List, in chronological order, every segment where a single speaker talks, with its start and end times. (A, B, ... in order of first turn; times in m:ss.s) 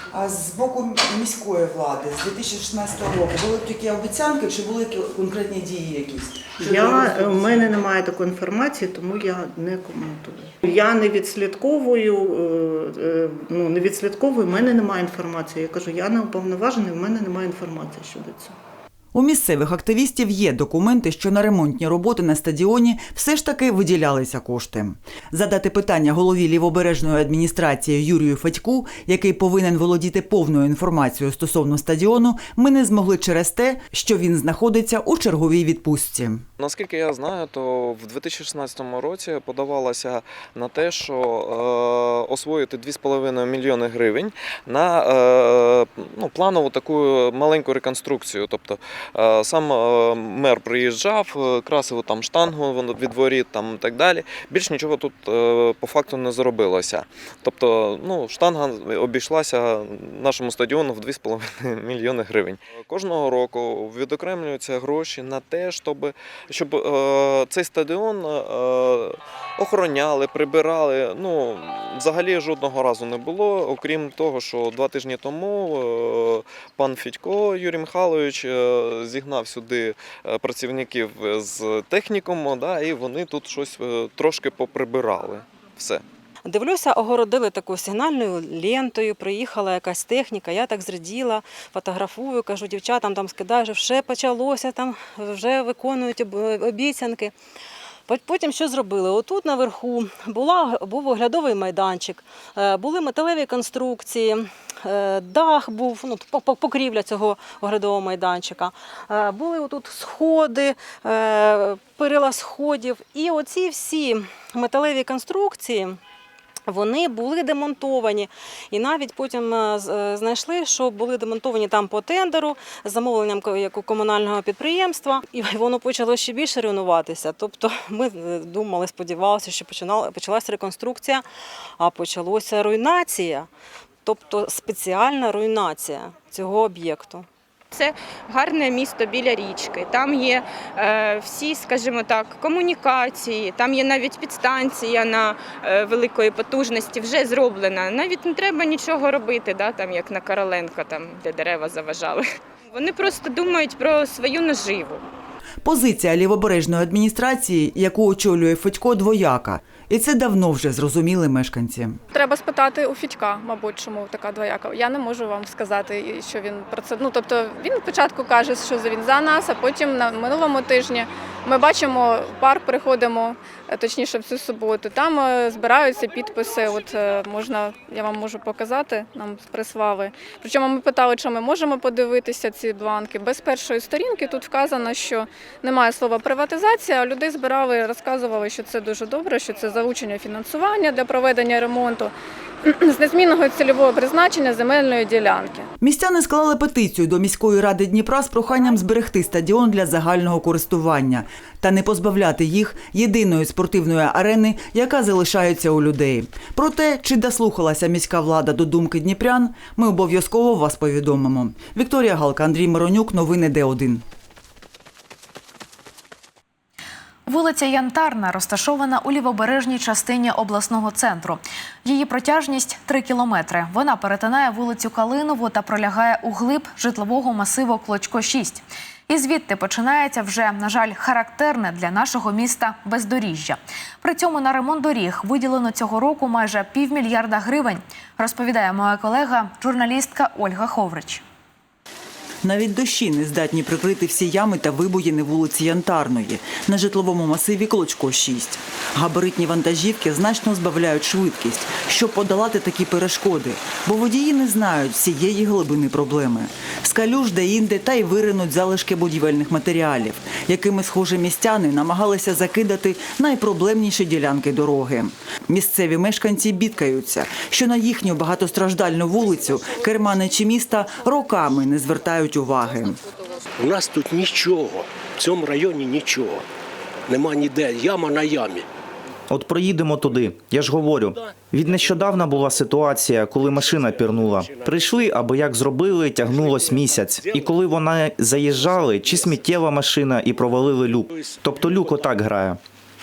0:00.1-0:07.9 A
0:06.6-0:18.6 B
0:19.1-0:36.4 A
0:36.6-1:26.0 C
1:26.4-1:37.3 D
1:38.1-1:56.0 D
1:56.7-2:11.2 D
2:11.8-2:13.5 D
2:14.0-2:17.3 D
2:17.7-2:35.1 E
2:35.6-2:42.0 A
2:42.1-3:12.1 F
3:12.6-3:15.7 F
3:15.8-3:34.0 A
3:37.3-4:01.2 G
4:02.4-4:33.0 A
4:33.6-4:36.4 H
4:37.1-4:38.6 H
4:39.3-4:52.6 I
4:41.3-4:42.2 H
4:43.5-4:45.1 H
4:46.2-4:47.6 H
4:48.6-4:49.6 H
4:51.1-4:52.2 H